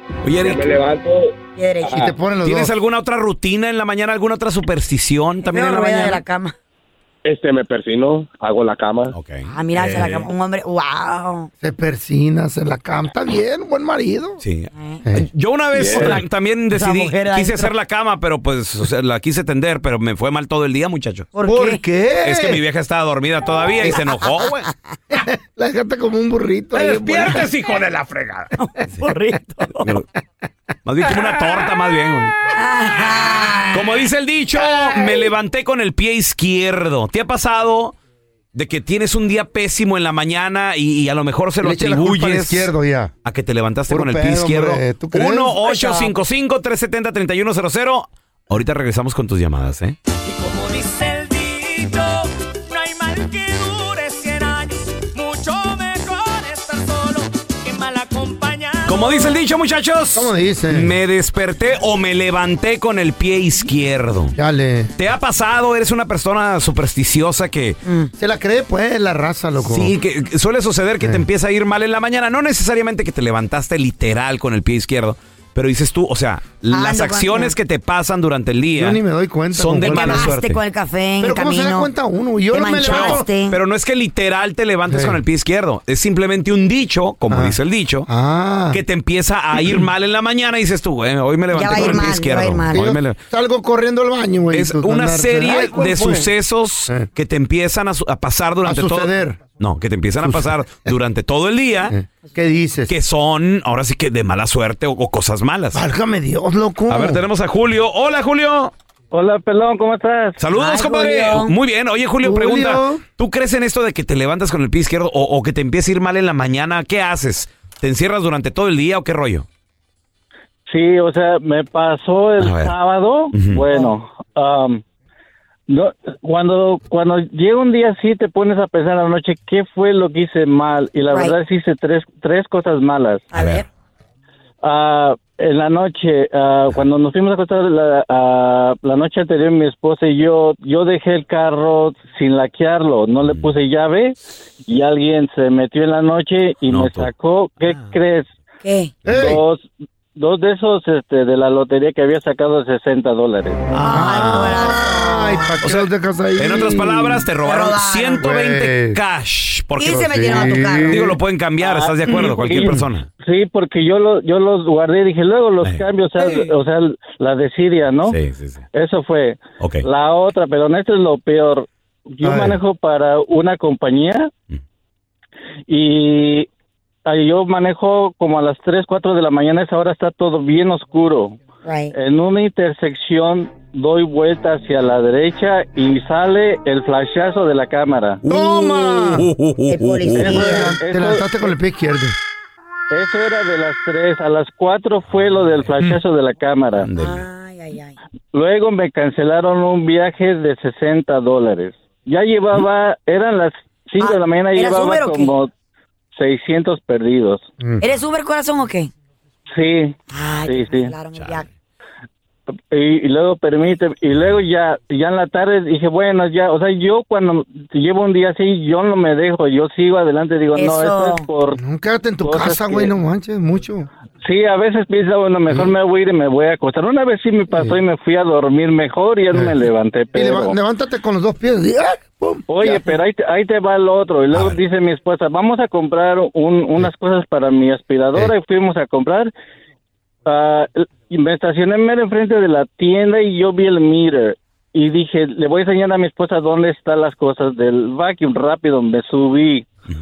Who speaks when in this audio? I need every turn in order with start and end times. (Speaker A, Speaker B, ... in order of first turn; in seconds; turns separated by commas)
Speaker A: 0.2-0.8, Speaker B: 0.4-2.1, Speaker C: 1.6-2.1, Speaker D: 1.9-2.7, Speaker A: 2.4-6.2, Speaker C: 5.4-6.5, Speaker B: 7.2-9.1, Speaker A: 9.1-10.3, Speaker C: 9.5-11.5, Speaker D: 11.6-14.4, Speaker A: 14.4-21.3, Speaker C: 14.7-15.0, Speaker B: 15.7-16.2, Speaker D: 15.9-16.2, Speaker C: 16.7-17.7, Speaker C: 21.3-21.8, Speaker D: 21.4-22.6, Speaker A: 22.2-24.7, Speaker D: 25.1-27.5, Speaker A: 26.7-28.5, Speaker C: 28.6-29.9, Speaker A: 30.9-32.4, Speaker C: 32.5-33.8, Speaker A: 33.7-38.0, Speaker A: 38.5-42.7, Speaker D: 41.6-43.1, Speaker A: 43.2-50.0, Speaker D: 43.9-45.6, Speaker C: 45.6-46.1, Speaker E: 50.2-59.4, Speaker A: 58.8-64.3, Speaker D: 60.1-61.0, Speaker D: 64.3-64.9, Speaker A: 65.0-67.8, Speaker C: 67.8-68.1, Speaker D: 68.2-69.9, Speaker A: 69.6-79.0, Speaker C: 76.7-77.5, Speaker D: 78.8-80.3, Speaker A: 79.5-80.6, Speaker C: 79.8-81.9, Speaker D: 81.2-83.3, Speaker C: 82.5-83.6, Speaker A: 82.8-88.1, Speaker D: 84.9-85.2, Speaker D: 87.3-88.8, Speaker A: 88.7-93.2, Speaker C: 91.5-92.8, Speaker D: 91.6-92.1, Speaker D: 92.7-96.3, Speaker A: 94.5-101.9, Speaker D: 98.6-99.4, Speaker D: 100.2-100.9, Speaker D: 101.9-102.9, Speaker A: 102.9-105.8, Speaker D: 105.7-107.2, Speaker A: 106.9-108.7, Speaker F: 109.1-110.4, Speaker A: 110.4-119.5, Speaker C: 110.5-111.5, Speaker D: 112.2-113.0, Speaker F: 120.7-124.8, Speaker A: 122.4-122.7, Speaker A: 123.3-123.6, Speaker F: 125.7-133.2, Speaker C: 133.3-133.7, Speaker A: 133.3-133.6, Speaker F: 134.6-144.2, Speaker F: 144.7-148.3, Speaker A: 146.7-147.1, Speaker C: 148.6-148.9, Speaker D: 149.0-149.4, Speaker F: 149.1-153.6, Speaker C: 153.7-155.5, Speaker D: 153.8-157.3, Speaker A: 153.9-154.4, Speaker A: 155.6-163.1, Speaker C: 157.4-158.2, Speaker D: 158.2-159.0, Speaker C: 159.8-161.1, Speaker D: 159.8-161.2, Speaker F: 161.6-168.1, Speaker D: 162.1-162.8, Speaker A: 165.6-166.5, Speaker A: 168.1-168.6, Speaker F: 168.7-174.3, Speaker A: 169.6-169.8, Speaker D: 172.2-172.6, Speaker F: 175.7-176.5, Speaker F: 177.1-181.3, Speaker C: 181.6-181.9, Speaker F: 181.9-188.2, Speaker D: 188.2-189.3, Speaker A: 188.2-190.6, Speaker C: 189.7-190.8, Speaker D: 190.2-192.2, Speaker F: 190.2-191.3, Speaker F: 192.9-196.9, Speaker A: 196.8-197.2, Speaker C: 197.0-198.0, Speaker F: 198.3-205.5, Speaker C: 204.0-205.3, Speaker F: 206.1-207.4, Speaker C: 207.8-208.9, Speaker F: 209.5-209.9, Speaker C: 210.1-211.5, Speaker F: 210.5-210.9, Speaker A: 211.2-211.4, Speaker F: 212.7-221.6, Speaker C: 220.5-221.2, Speaker D: 221.5-223.9, Speaker F: 222.2-222.9, Speaker F: 224.2-230.5, Speaker D: 227.5-227.8, Speaker D: 230.1-232.8, Speaker F: 232.5-239.3, Speaker F: 240.2-249.7